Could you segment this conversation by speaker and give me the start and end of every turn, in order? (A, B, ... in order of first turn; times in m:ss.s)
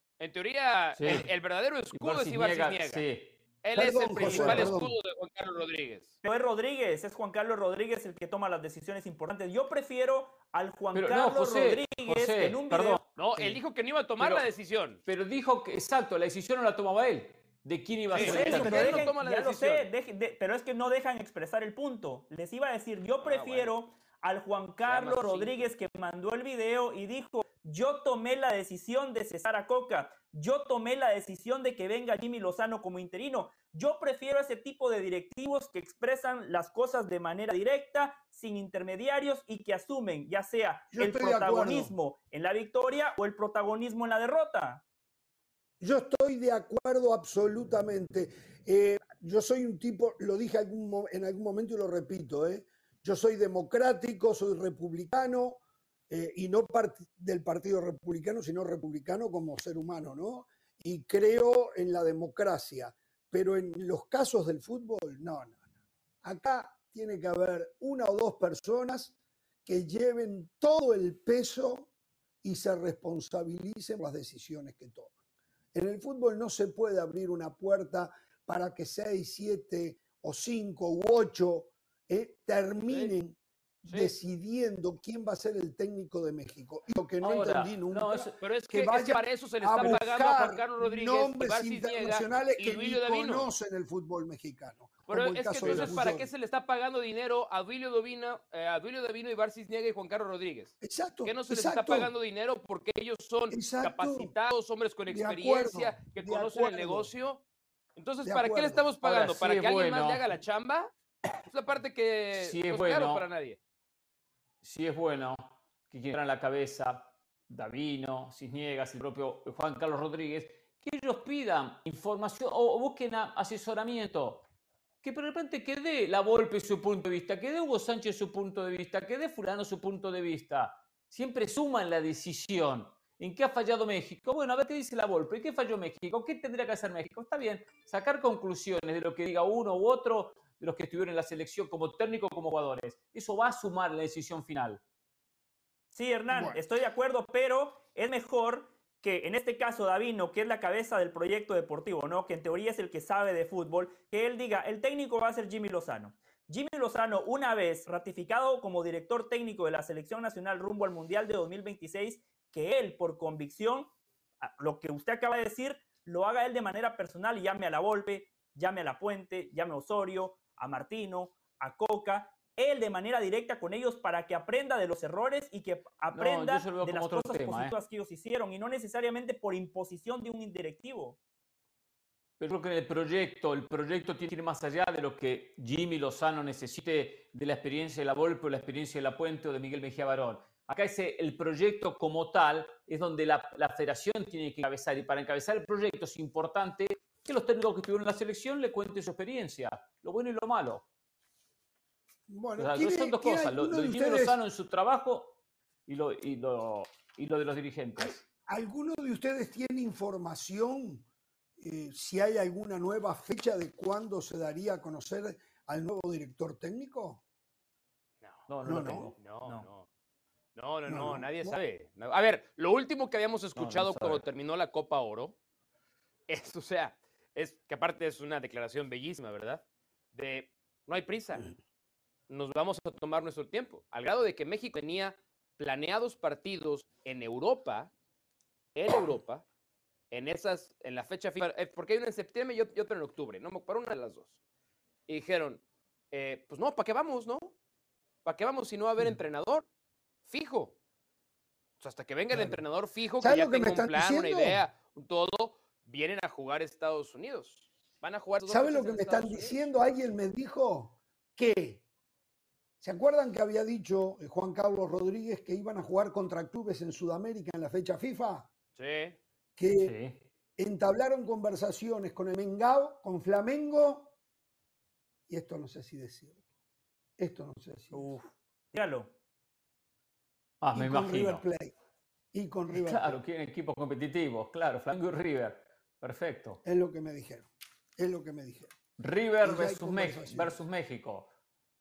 0:00.2-0:03.0 A
0:01.0-0:01.3 B
0:01.9-0:03.4 B
0:03.6-0:06.1 A
0:03.7-0:04.9 C
0:04.2-0:04.7 B
0:06.2-0:13.0 D
0:10.9-0:13.6 B
0:13.2-0:15.0 A
0:14.2-0:14.5 B
0:15.0-0:19.1 B
0:18.1-0:19.9 A
0:18.1-0:44.8 D
0:23.2-0:23.7 A
0:24.8-0:25.6 A
0:40.9-0:41.9 C
0:45.8-1:05.6 C
1:06.2-1:09.1 C
1:09.6-1:11.9 C
1:12.4-1:15.1 C
1:15.7-1:36.3 C
1:27.2-1:28.4 B
1:28.4-1:33.5 A
1:35.1-1:47.4 A
1:35.6-1:36.1 B
1:40.8-1:42.1 C
1:43.5-1:44.3 C
1:45.1-1:47.1 C
1:48.0-1:50.9 A
1:48.2-1:48.9 C
1:49.0-1:50.2 B
1:51.5-1:53.6 A
1:52.3-1:53.2 B
1:54.6-2:04.4 B
2:05.0-2:24.8 B
2:25.9-2:43.9 D
2:26.3-2:26.6 C
2:44.4-3:01.2 D
2:56.1-2:57.7 B
3:02.4-3:20.8 B
3:22.3-3:24.4 C
3:22.6-3:28.2 B
3:28.0-3:31.0 C
3:31.6-3:37.2 C
3:38.2-3:38.5 A
3:38.5-3:39.6 B
3:38.6-3:39.1 C
3:39.2-3:39.9 A
3:40.5-3:45.4 A
3:40.9-3:41.6 C
3:43.6-3:44.2 B
3:46.3-3:51.5 A
3:52.3-3:57.9 A
3:58.7-3:59.4 A
4:00.1-4:04.4 A
4:05.1-4:07.5 A
4:08.2-4:09.7 A
4:10.2-4:10.7 A
4:11.8-4:19.6 A
4:12.3-4:12.6 C
4:13.2-4:14.6 C
4:18.4-4:21.8 C
4:22.8-4:28.5 C
4:28.8-4:29.2 A
4:29.6-4:29.9 C
4:29.7-4:30.2 B
4:30.6-4:34.1 C
4:35.3-4:36.4 C
4:37.2-4:38.1 C
4:37.9-4:39.1 D
4:40.6-4:41.4 B
4:40.7-4:41.7 C
4:42.3-4:43.1 C
4:42.7-4:46.6 B
4:46.6-4:48.7 C
4:49.0-4:51.3 B
4:49.4-4:50.6 C